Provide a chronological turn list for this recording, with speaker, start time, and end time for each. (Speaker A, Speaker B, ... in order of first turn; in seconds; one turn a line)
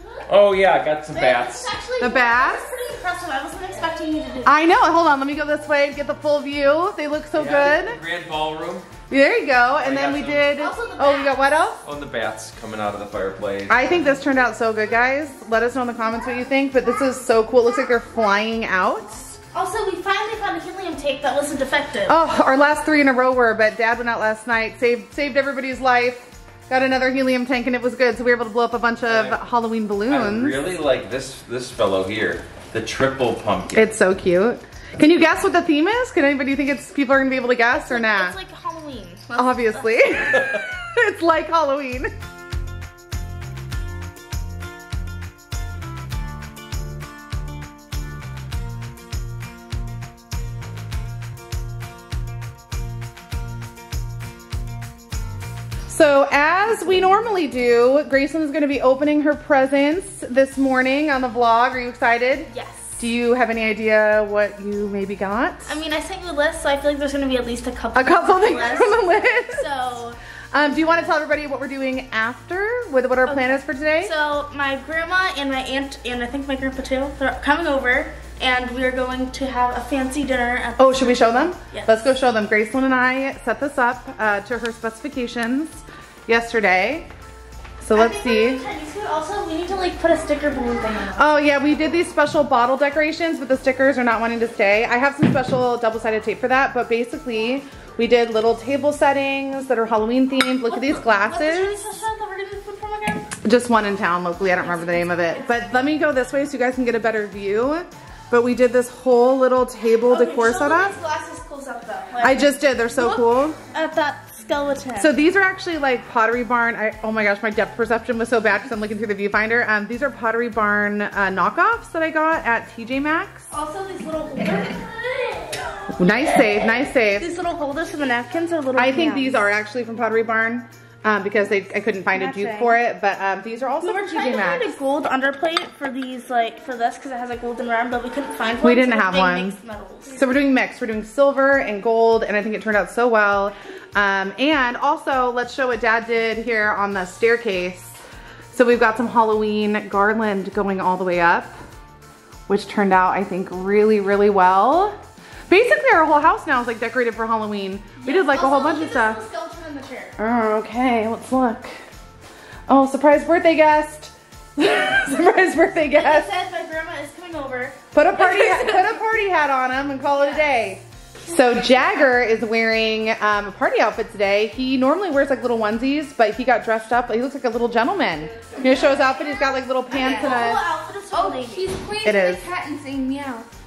Speaker A: 0.3-1.7
Speaker B: 1.1-4.5
Speaker C: 2.0-2.6
Speaker C: 4.5-8.0
Speaker A: 7.3-8.9
Speaker C: 9.1-11.8
Speaker A: 9.8-10.5
Speaker B: 10.6-11.7
Speaker A: 11.8-13.9
Speaker C: 13.7-19.4
Speaker B: 19.5-22.1
Speaker C: 22.1-30.7
Speaker A: 29.1-29.4
Speaker A: 30.1-33.9
Speaker C: 33.7-38.4
Speaker B: 37.7-40.4
Speaker C: 39.4-42.1
Speaker C: 55.9-65.8
Speaker B: 62.5-63.1
Speaker B: 65.7-71.1
Speaker C: 68.0-69.7
Speaker C: 70.5-74.1
Speaker B: 73.3-81.9
Speaker C: 80.8-87.1
Speaker C: 87.8-88.6
Speaker B: 87.9-91.3
Speaker C: 91.2-101.8
Speaker B: 100.7-103.3
Speaker C: 103.4-111.0
Speaker B: 104.5-105.7
Speaker B: 110.1-115.2
Speaker C: 112.2-113.6
Speaker C: 115.0-123.5
Speaker B: 123.5-126.5
Speaker C: 126.0-127.3
Speaker B: 127.2-129.4
Speaker C: 128.8-134.7
Speaker B: 132.1-132.8
Speaker B: 133.8-140.3
Speaker C: 138.6-139.6
Speaker C: 140.1-148.0
Speaker C: 148.5-151.6
Speaker C: 152.5-155.0
Speaker C: 155.5-159.2
Speaker B: 158.0-160.2
Speaker C: 160.2-161.8
Speaker C: 162.7-166.3
Speaker B: 165.9-168.9
Speaker C: 167.9-180.6
Speaker B: 170.1-170.5
Speaker D: 178.4-179.2
Speaker B: 179.9-181.7
Speaker D: 179.9-180.5
Speaker D: 181.1-183.5
Speaker C: 182.0-182.4